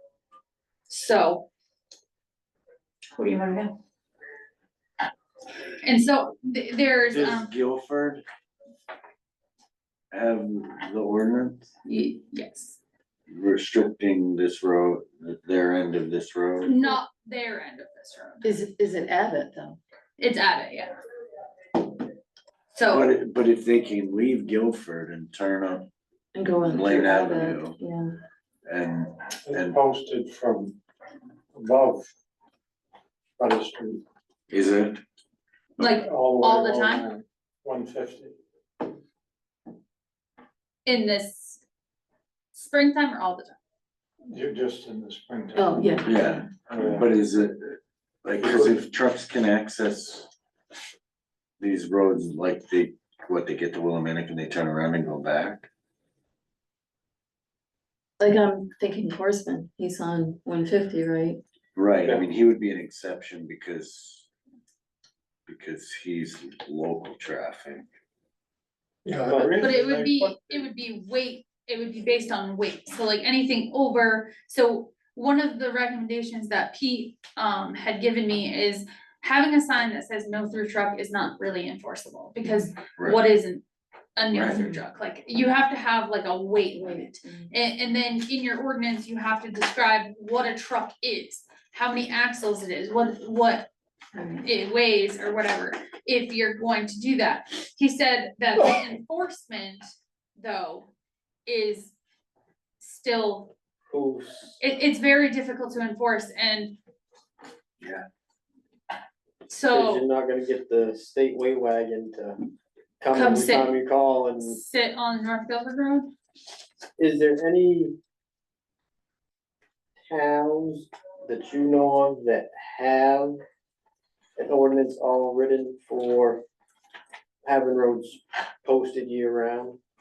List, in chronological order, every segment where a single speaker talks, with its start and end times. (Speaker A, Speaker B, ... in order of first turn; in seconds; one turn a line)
Speaker A: 0.9-1.5
Speaker A: 3.1-3.7
Speaker A: 5.8-7.5
Speaker B: 7.1-8.2
Speaker B: 10.1-11.7
Speaker A: 11.9-12.8
Speaker B: 13.3-16.8
Speaker A: 16.6-18.5
Speaker C: 18.4-19.8
Speaker A: 20.2-20.9
Speaker A: 22.7-23.2
Speaker B: 22.9-25.9
Speaker C: 26.3-28.1
Speaker B: 26.6-27.8
Speaker B: 28.7-29.8
Speaker D: 29.5-30.8
Speaker D: 31.6-32.1
Speaker D: 33.4-34.0
Speaker B: 34.5-35.0
Speaker A: 35.8-37.1
Speaker D: 36.0-38.4
Speaker A: 40.9-41.6
Speaker A: 42.5-43.6
Speaker D: 44.3-46.1
Speaker C: 45.5-46.5
Speaker B: 46.0-50.3
Speaker D: 46.7-47.1
Speaker D: 48.4-48.8
Speaker B: 51.6-55.7
Speaker C: 58.2-61.4
Speaker B: 61.8-64.3
Speaker B: 65.5-67.8
Speaker D: 69.0-70.7
Speaker E: 69.3-69.6
Speaker A: 69.6-83.6
Speaker C: 82.4-82.7
Speaker B: 83.0-83.2
Speaker A: 84.2-93.7
Speaker B: 84.3-84.6
Speaker C: 84.5-84.8
Speaker C: 86.8-87.5
Speaker C: 94.2-94.5
Speaker A: 94.4-100.9
Speaker A: 101.5-101.9
Speaker A: 102.8-103.5
Speaker E: 103.9-104.6
Speaker A: 104.6-106.8
Speaker A: 109.5-110.1
Speaker E: 109.7-112.4
Speaker E: 113.0-114.6
Speaker A: 113.1-113.8
Speaker A: 114.4-116.1
Speaker E: 117.0-118.0
Speaker E: 120.1-123.4
Speaker E: 124.4-126.4
Speaker E: 127.4-129.8